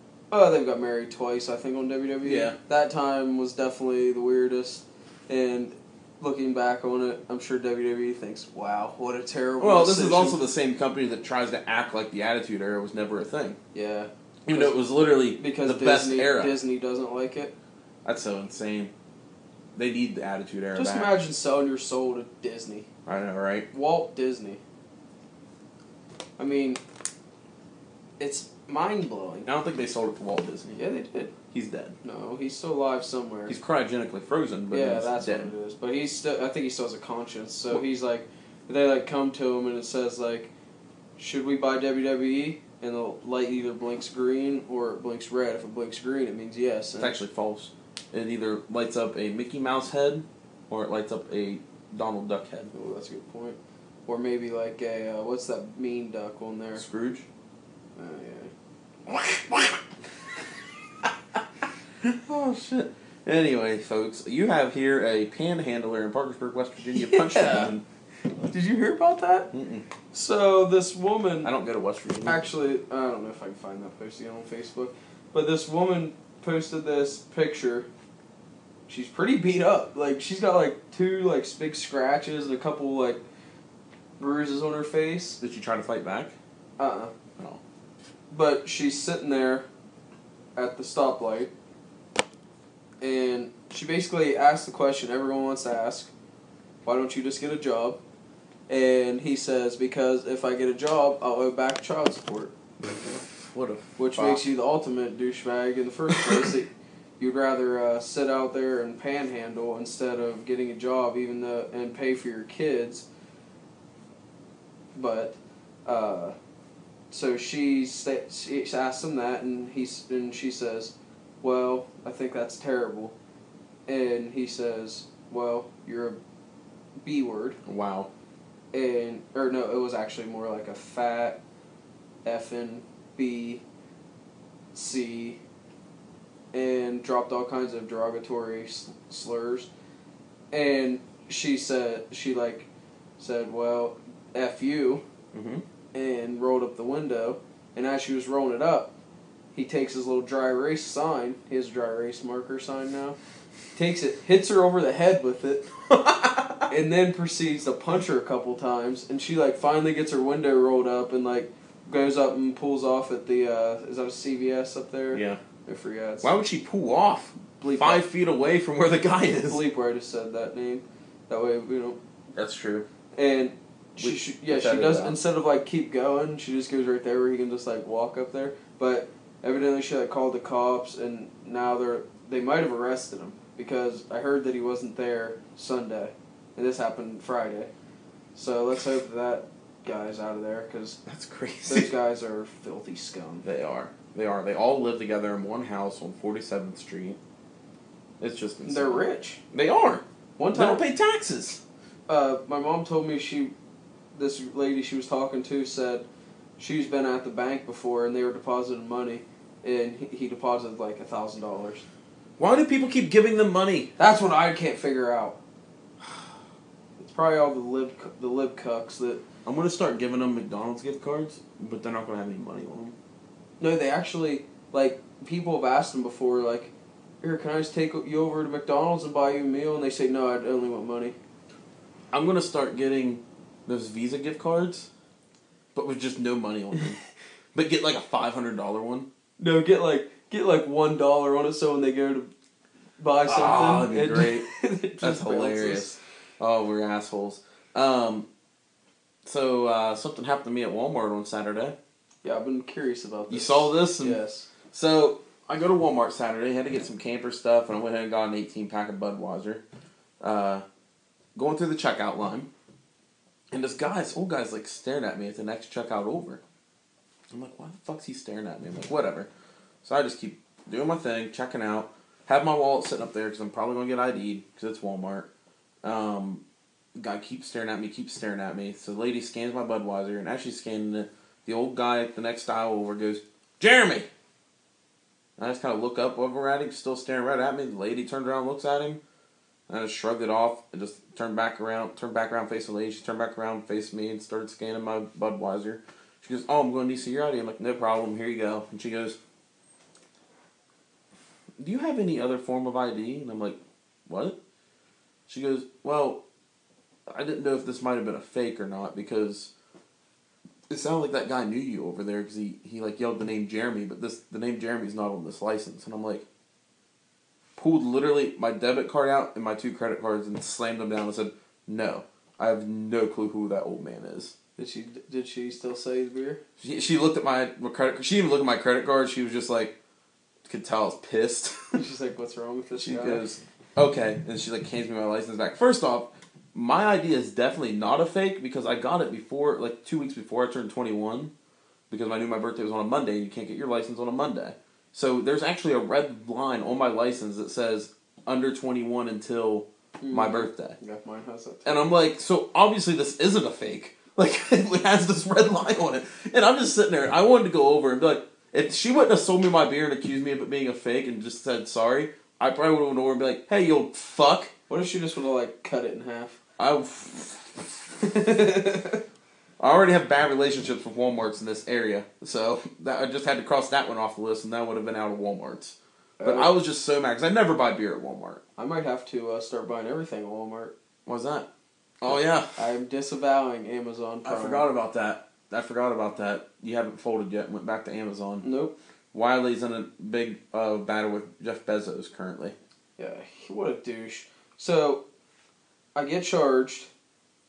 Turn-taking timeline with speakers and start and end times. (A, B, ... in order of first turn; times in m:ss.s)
0:00.3-0:10.4 A
0:02.2-0:02.6 B
0:09.6-0:13.6 B
0:13.7-0:14.8 A
0:14.4-0:16.6 B
0:15.4-0:17.5 A
0:18.0-0:18.9 B
0:19.7-0:21.2 B
0:20.7-0:22.9 A
0:23.0-0:23.7 B
0:23.7-0:24.6 A
0:26.4-0:26.8 A
0:28.2-0:29.5 A
0:29.4-0:30.8 B
0:30.8-0:31.3 A
0:31.5-0:31.9 B
0:32.0-0:33.6 A
0:33.5-0:35.5 B
0:34.7-0:40.5 A
0:41.2-0:47.2 A
0:47.0-0:52.7 B
0:52.7-0:56.8 A
0:56.8-0:57.3 B
0:57.9-0:58.5 A
0:59.1-0:59.8 B
1:02.0-1:07.8 B
1:06.9-1:07.7 A
1:08.5-1:09.5 A
1:09.5-1:09.8 B
1:10.1-1:11.5 A
1:11.4-1:12.4 B
1:12.2-1:17.9 A
1:18.9-1:23.2 A
1:24.2-1:25.4 A
1:25.4-1:26.3 B
1:26.8-1:27.1 A
1:28.3-1:29.6 A
1:30.6-1:31.5 A
1:33.0-1:36.1 A
1:36.8-1:38.0 A
1:38.7-1:42.5 A
1:43.0-1:44.4 B
1:44.0-1:53.0 A
1:54.9-1:56.4 A
1:57.1-2:03.1 A
2:03.9-2:06.2 A
2:07.0-2:07.6 A
2:07.6-2:08.1 B
2:08.7-2:11.4 A
2:12.2-2:13.6 A
2:14.7-2:15.4 A
2:16.5-2:19.7 A
2:20.5-2:22.7 A
2:23.2-2:25.0 A
2:25.3-2:25.6 B
2:25.9-2:28.9 A
2:29.5-2:33.2 A
2:33.7-2:35.7 A
2:35.9-2:36.6 B
2:36.7-2:46.3 A
2:45.1-2:45.4 B
2:46.2-2:49.6 B
2:47.6-2:48.0 A
2:49.5-2:52.0 A
2:52.3-2:52.8 B
2:53.1-3:07.7 A
2:54.0-2:55.2 B
3:08.3-3:11.0 A
3:11.0-3:11.9 B
3:11.7-3:13.4 A
3:13.4-3:17.2 B
3:18.2-3:21.6 B
3:18.6-3:19.4 A
3:20.4-3:20.8 A
3:22.1-3:23.5 A
3:24.1-3:26.0 A
3:26.6-3:31.8 A
3:32.4-3:33.9 B
3:34.0-3:35.4 A
3:37.0-3:39.2 A
3:39.4-3:42.9 B
3:43.6-3:46.7 A
3:47.2-3:51.1 A
3:52.1-3:54.9 B
3:55.7-3:57.0 B
3:57.5-3:59.1 B
3:59.4-4:02.3 A
4:03.0-4:06.0 A
4:03.2-4:08.3 B
4:09.2-4:11.8 B
4:12.2-4:14.5 A
4:13.3-4:14.2 B
4:14.7-4:19.6 B
4:20.2-4:20.6 B
4:21.3-4:22.5 B
4:23.5-4:26.4 B
4:27.3-4:29.3 B
4:29.8-4:35.3 B
4:35.8-4:36.4 B
4:37.0-4:44.1 B
4:45.4-4:49.0 B
4:49.7-4:59.2 B
5:01.6-5:04.4 B
5:05.3-5:06.2 B
5:07.1-5:09.5 B
5:10.7-5:16.2 B
5:17.6-5:24.3 B
5:24.6-5:26.4 A
5:26.6-5:29.7 B
5:30.4-5:31.8 B
5:31.7-5:33.2 A
5:32.8-5:41.3 B
5:41.9-5:50.8 B
5:50.0-5:51.9 A
5:51.6-6:04.5 B
6:04.7-6:06.4 A
6:06.6-6:08.6 B
6:08.3-6:09.0 A
6:09.6-6:18.4 B
6:16.2-6:16.5 A
6:18.6-6:20.7 A
6:21.0-6:21.5 B
6:22.0-6:22.6 B
6:22.1-6:24.7 A
6:24.2-6:28.4 B
6:28.4-6:28.7 A
6:29.1-6:32.6 B
6:33.0-6:35.0 A
6:35.9-6:36.9 A